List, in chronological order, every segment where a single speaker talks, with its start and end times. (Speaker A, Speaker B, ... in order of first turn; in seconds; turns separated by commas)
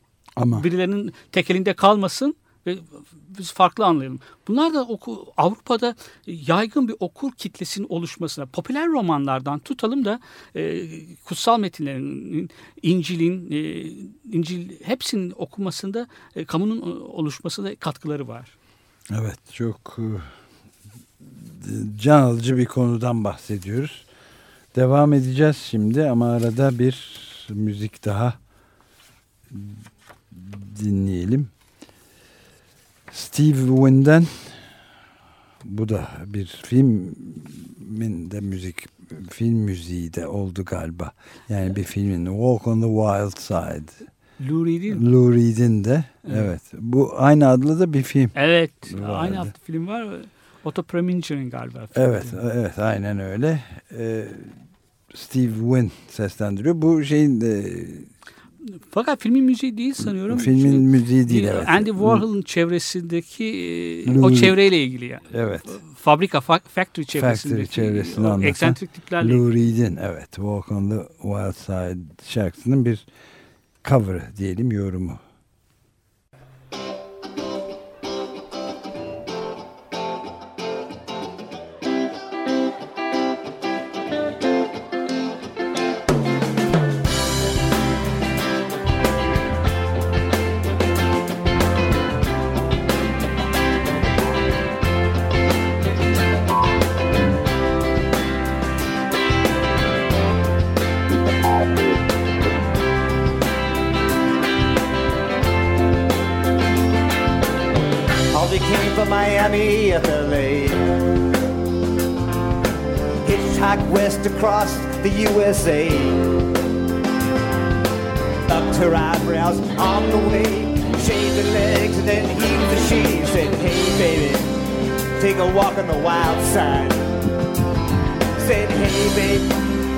Speaker A: 0.4-0.7, Speaker B: 0.5-18.5, Speaker A: 19.1-20.3, Speaker A: 21.2-24.1, Speaker A: 24.7-28.4, Speaker A: 29.5-31.5, Speaker A: 33.1-34.6, Speaker A: 35.6-44.0, Speaker B: 44.4-45.0, Speaker A: 44.9-48.4, Speaker B: 46.2-46.5, Speaker B: 48.3-52.4, Speaker A: 48.9-49.5, Speaker A: 51.9-54.6, Speaker A: 55.1-58.1, Speaker B: 58.6-69.5, Speaker A: 60.0-62.2, Speaker A: 64.0-64.6, Speaker A: 65.3-65.8, Speaker A: 67.1-73.0, Speaker A: 73.8-75.2, Speaker C: 108.3-111.0, Speaker C: 113.2-116.2, Speaker C: 118.5-124.5, Speaker C: 125.2-127.0, Speaker C: 128.4-129.5